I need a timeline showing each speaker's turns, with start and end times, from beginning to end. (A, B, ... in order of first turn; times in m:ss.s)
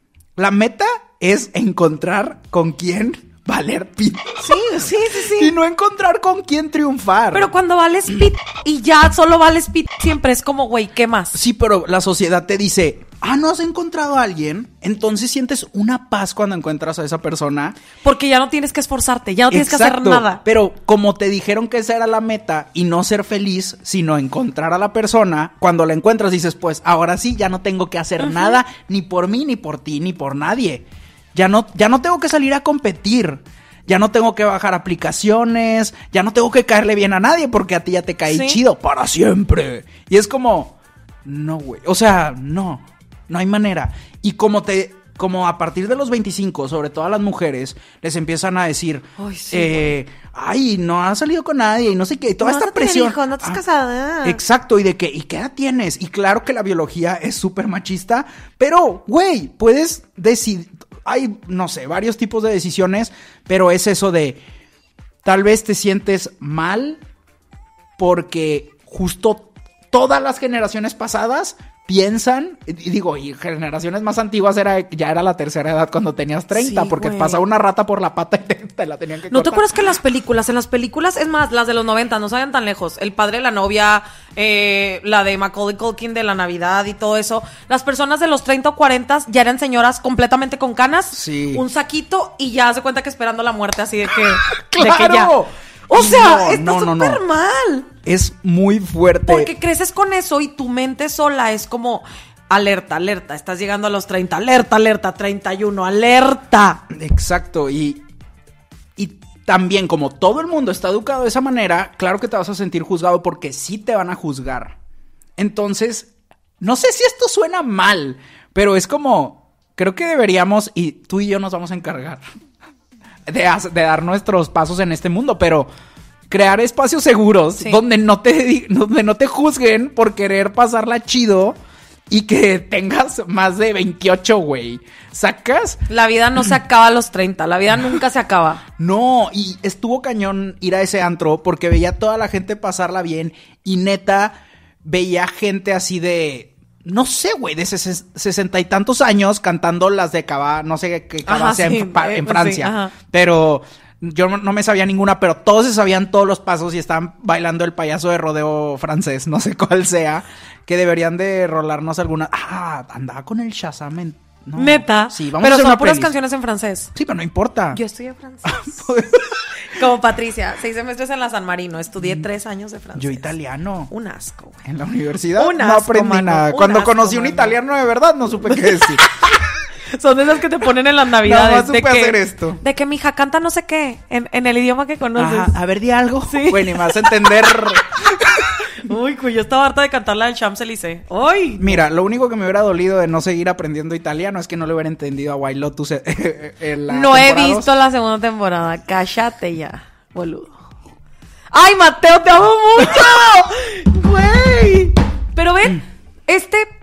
0:00.4-0:04.7 A
0:04.4-0:05.5 B
0:05.3-0:07.5 A
0:07.3-0:11.4 B
0:11.3-0:17.8 A
0:18.0-0:20.4 B
0:19.5-0:53.6 A
0:28.2-0:28.6 B
0:38.3-0:38.6 B
0:49.2-0:49.9 B
0:52.4-0:54.4 B
0:54.2-1:04.4 A
1:05.2-1:07.0 A
1:08.0-1:19.7 A
1:16.5-1:17.4 B
1:19.3-1:35.3 B
1:31.1-1:31.6 A
1:34.4-1:37.2 A
1:35.9-1:37.9 B
1:38.0-1:39.5 A
1:39.3-1:46.8 B
1:46.9-1:48.0 A
1:49.0-1:54.8 A
1:55.4-2:02.2 A
2:03.3-2:05.7 A
2:06.3-2:11.6 A
2:12.1-2:15.8 A
2:15.9-2:18.6 B
2:18.8-2:46.1 A
2:31.2-2:32.9 B
2:44.6-2:46.9 B
2:46.9-2:47.8 A
2:47.7-2:48.9 B
2:48.4-2:49.5 A
2:49.6-2:53.3 B
2:52.9-2:53.9 A
2:53.9-2:54.6 B
2:54.6-2:59.0 A
2:55.4-2:57.6 B
2:58.4-2:59.1 B
2:59.9-3:05.5 B
3:01.2-3:02.6 A
3:05.2-3:08.6 A
3:06.3-3:07.8 B
3:08.6-3:11.8 B
3:11.6-3:17.7 A
3:16.9-3:20.5 B
3:21.5-3:26.7 B